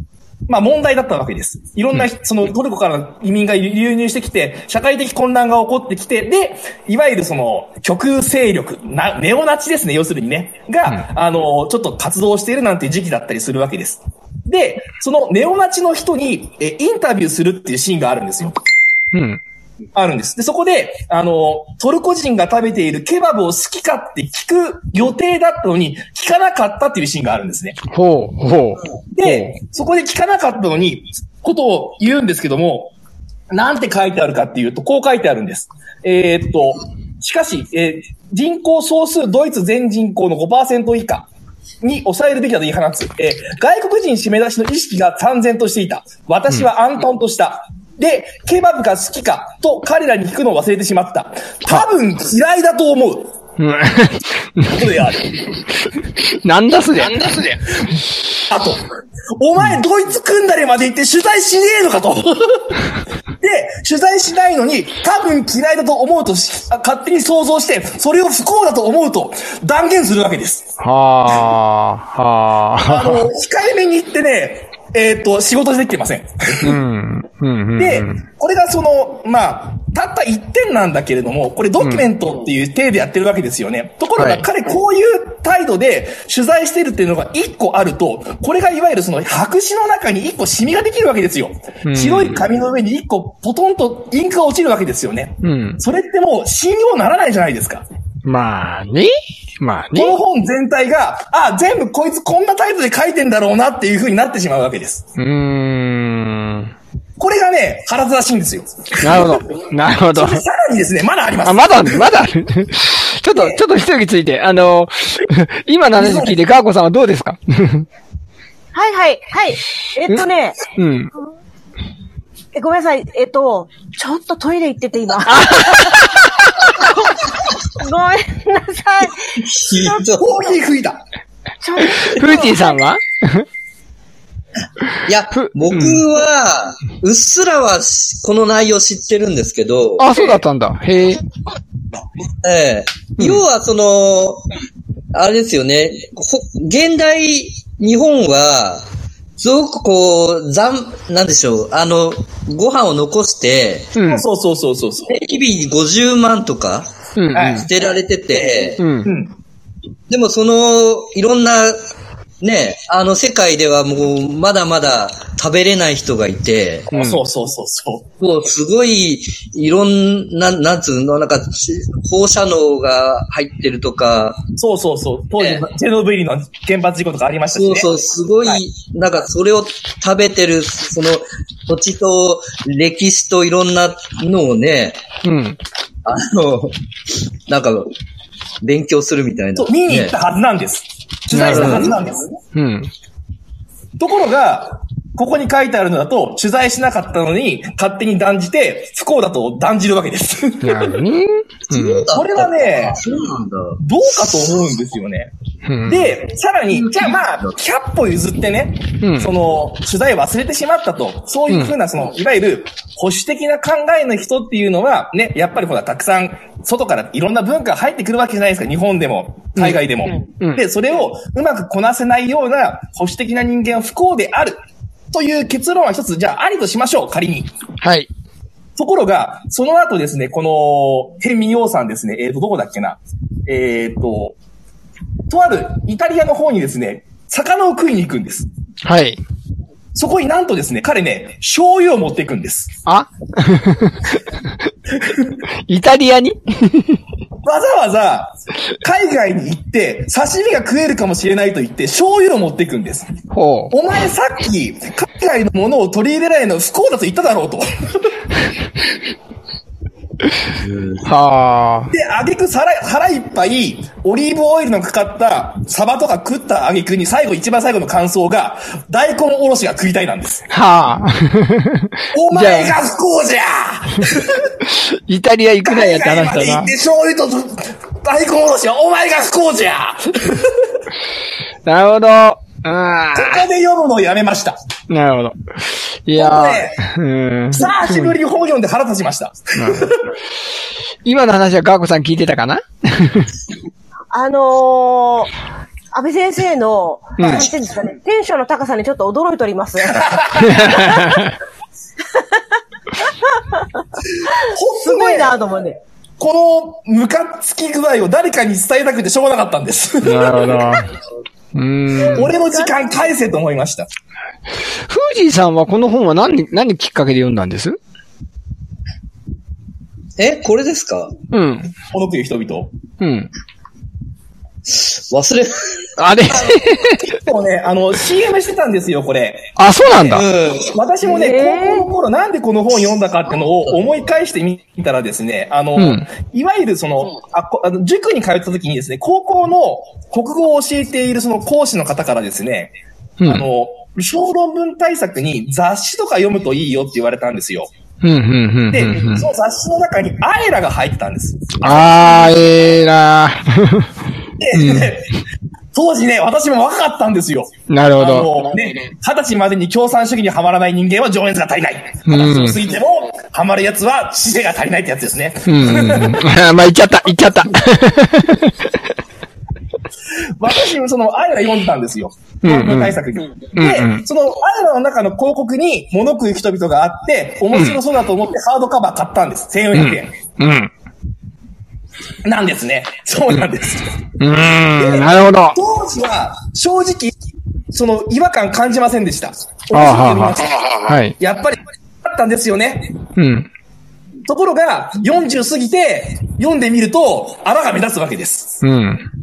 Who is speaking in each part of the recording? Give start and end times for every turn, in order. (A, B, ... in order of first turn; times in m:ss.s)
0:00.5-0:18.6 A
0:19.1-0:19.4 B
0:20.0-0:27.8 A
0:27.9-0:29.6 B
0:29.1-0:32.9 A
0:33.5-0:41.3 A
0:41.8-0:53.3 A
0:53.6-0:54.8 B
0:54.6-0:55.3 A
0:56.3-0:57.4 B
0:57.1-0:57.9 A
0:58.5-1:02.8 A
1:03.4-1:10.7 A
1:10.8-1:13.3 B
1:12.8-1:16.8 A
1:16.6-1:18.2 B
1:17.8-1:37.8 A
1:21.8-1:22.1 B
1:24.2-1:24.4 B
1:31.8-1:32.4 B
1:35.4-1:35.8 B
1:38.2-1:40.2 B
1:39.9-1:45.0 A
1:45.2-1:46.7 B
1:47.2-1:49.4 A
1:49.0-1:50.4 B
1:50.1-1:52.1 A
1:51.4-1:57.9 B
1:56.0-1:56.4 A
1:58.7-2:00.6 C
2:00.8-2:01.1 B
2:02.5-2:10.0 C
2:05.3-2:06.5 B
2:09.3-2:10.4 D
2:10.2-2:11.0 A
2:11.6-2:12.8 C
2:11.8-2:13.5 B
2:15.1-2:20.2 D
2:15.4-2:16.0 B
2:20.0-2:21.2 B
2:22.4-2:24.4 D
2:25.1-2:28.9 D
2:29.4-2:34.0 D
2:34.0-2:34.2 B
2:34.0-2:35.1 A
2:35.1-2:36.9 D
2:37.2-2:37.7 B
2:37.3-2:37.7 A
2:37.5-2:38.8 D
2:38.8-2:39.1 B
2:39.1-2:39.3 A
2:40.1-2:41.8 D
2:42.4-2:46.9 D
2:46.9-2:47.2 B
2:46.9-2:48.1 A
2:48.2-2:54.4 D
2:54.6-2:57.9 A
2:55.4-2:55.7 D
2:57.5-3:05.0 D
3:05.2-3:05.6 B
3:06.0-3:06.8 D
3:07.5-3:07.9 D
3:08.6-3:10.2 D
3:09.6-3:12.3 A
3:11.3-3:11.9 B
3:11.4-3:12.0 D
3:12.5-3:12.9 B
3:14.0-3:21.0 A
3:20.6-3:22.1 B
3:21.7-3:23.8 D
3:22.1-3:23.0 A
3:23.8-3:25.3 A
3:25.7-3:26.1 B
3:25.8-3:44.6 A
3:26.7-3:27.5 D
3:29.0-3:29.3 B
3:31.5-3:31.7 B
3:39.6-3:39.8 B
3:45.1-3:47.5 A
3:47.8-3:48.1 B
3:48.8-3:54.4 A
3:55.3-3:58.5 A
3:58.8-3:59.2 B
4:00.0-4:02.8 A
4:02.9-4:04.2 B
4:05.7-4:07.0 B
4:07.4-4:13.1 A
4:13.3-4:13.7 B
4:13.7-4:18.1 A
4:20.6-4:21.0 D
4:21.0-4:21.9 B
4:21.9-4:30.4 A
4:30.5-4:32.8 B
4:32.1-4:34.5 A
4:34.7-4:36.7 B
4:35.6-4:40.7 A
4:41.7-4:43.4 B
4:43.2-4:44.6 A
4:44.9-4:48.2 B
4:46.2-4:46.8 A
4:47.5-4:50.1 A
4:49.6-4:49.9 B
4:51.0-4:53.3 B
4:54.1-4:55.3 C
4:55.9-5:01.1 C
4:57.2-4:57.5 B
4:59.9-5:00.7 A
5:00.4-5:01.4 B
5:03.3-5:03.7 C
5:04.4-5:05.4 A
5:04.4-5:05.8 C
5:06.2-5:10.8 A
5:10.0-5:10.9 B
5:11.6-5:12.3 B
5:12.0-5:13.9 A
5:14.9-5:17.8 B
5:20.2-5:21.1 D
5:21.3-5:21.7 B
5:21.9-5:22.7 A
5:23.0-5:23.3 B
5:24.7-5:25.9 D
5:26.0-5:27.1 B
5:27.0-5:29.5 A
5:29.6-5:30.2 B
5:30.0-5:30.7 D
5:30.7-5:47.7 A
5:31.1-5:31.9 C
5:35.8-5:36.1 B
5:48.0-5:49.3 B
5:48.7-5:52.1 A
5:51.6-5:53.9 B
5:54.4-5:55.2 A
5:54.5-5:54.9 B
5:55.7-6:06.3 A
5:57.7-5:58.3 B
6:02.1-6:02.6 B
6:05.5-6:08.6 B
6:10.4-6:20.1 A
6:12.4-6:13.0 B
6:13.6-6:14.0 B
6:17.5-6:17.8 B
6:19.7-6:20.7 B
6:22.2-6:24.0 A
6:24.2-6:25.6 B
6:24.8-6:27.1 A
6:27.7-6:30.6 A
6:29.7-6:31.2 B
6:31.2-6:32.9 A
6:33.2-6:33.5 B
6:34.3-6:38.6 A
6:38.6-6:39.0 B